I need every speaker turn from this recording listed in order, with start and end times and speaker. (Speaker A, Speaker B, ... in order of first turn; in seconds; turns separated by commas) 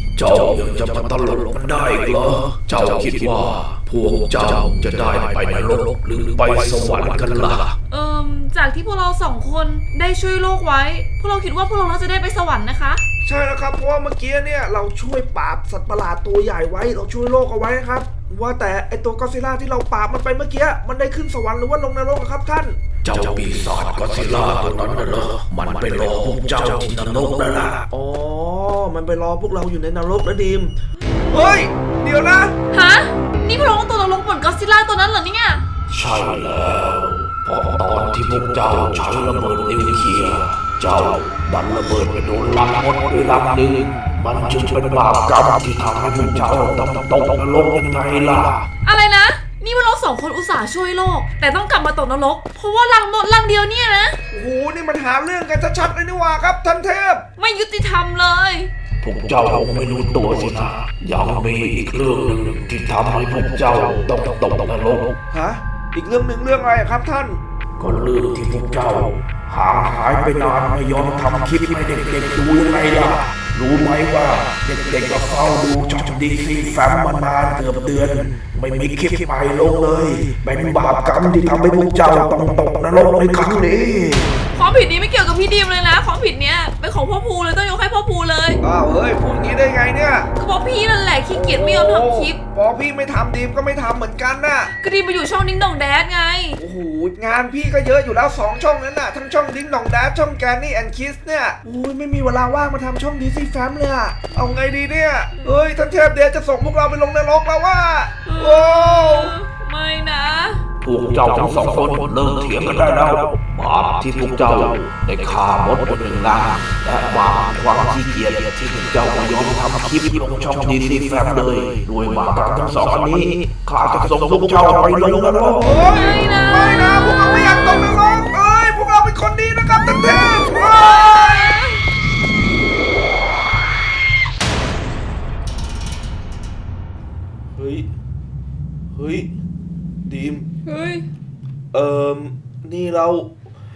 Speaker A: 0.2-7.8, Speaker B: 7.9-13.0, Speaker C: 13.2-22.8, Speaker A: 23.0-27.8, Speaker C: 27.9-30.8, Speaker B: 31.1-31.6, Speaker C: 31.3-32.5, Speaker B: 32.7-35.7, Speaker A: 35.9-48.7, Speaker B: 48.8-54.2, Speaker C: 54.3-57.2, Speaker B: 57.4-58.7, Speaker A: 59.0-65.2, Speaker C: 65.3-67.4, Speaker A: 67.8-84.3, Speaker B: 84.5-88.6, Speaker C: 88.6-90.3, Speaker B: 90.3-92.4, Speaker C: 91.3-94.7, Speaker B: 94.7-96.6, Speaker C: 96.6-109.3, Speaker B: 108.3-110.7, Speaker A: 110.8-125.8, Speaker C: 125.5-131.6, Speaker B: 125.7-128.2, Speaker B: 130.6-131.8, Speaker C: 137.6-137.9, Speaker C: 138.9-139.3, Speaker C: 140.1-140.5, Speaker B: 140.7-141.1, Speaker C: 141.7-143.3